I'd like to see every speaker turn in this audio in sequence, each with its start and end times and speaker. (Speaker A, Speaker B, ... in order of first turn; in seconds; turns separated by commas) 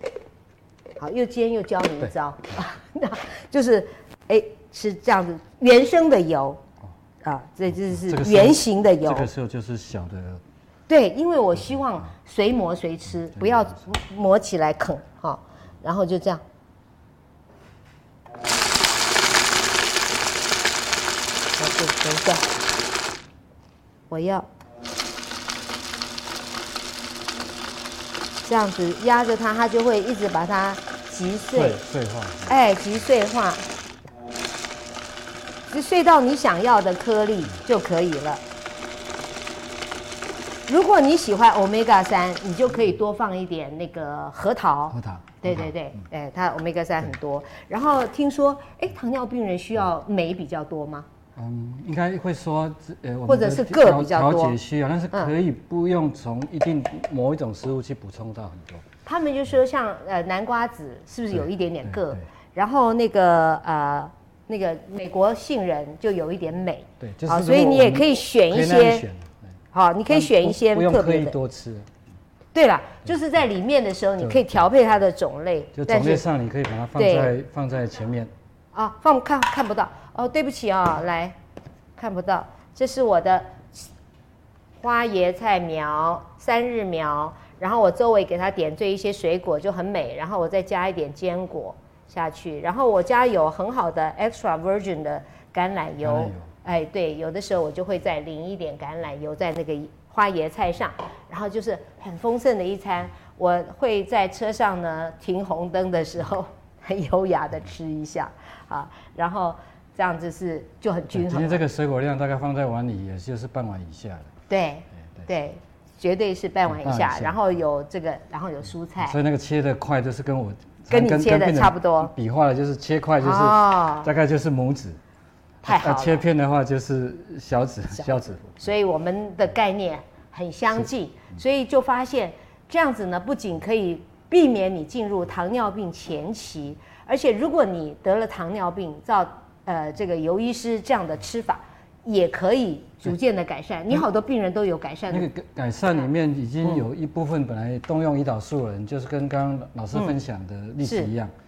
Speaker A: 1.0-6.6, Speaker A: 7.2-9.3, Speaker B: 7.9-10.4, Speaker A: 10.9-16.4, Speaker A: 21.6-22.5, Speaker A: 24.1-24.5, Speaker A: 28.4-31.8, Speaker B: 31.5-32.5, Speaker A: 32.5-33.6, Speaker A: 35.7-38.4, Speaker A: 40.7-51.1, Speaker B: 44.9-45.7, Speaker B: 51.4-58.9, Speaker A: 53.3-54.6, Speaker A: 59.0-69.0, Speaker B: 61.9-62.2, Speaker B: 67.0-69.4, Speaker A: 69.7-71.4, Speaker B: 70.1-71.9, Speaker A: 72.5-76.2, Speaker B: 75.8-78.3, Speaker A: 77.0-77.3, Speaker A: 78.7-81.4, Speaker A: 82.0-83.9, Speaker A: 84.8-111.6, Speaker B: 96.0-96.5, Speaker B: 111.1-114.3, Speaker A: 114.5-119.2, Speaker B: 116.7-117.4, Speaker B: 119.0-125.0, Speaker A: 120.9-122.1, Speaker A: 123.2-124.1, Speaker A: 125.6-126.2, Speaker B: 125.7-128.7, Speaker A: 128.0-145.3, Speaker B: 145.1-151.3, Speaker A: 150.8-151.1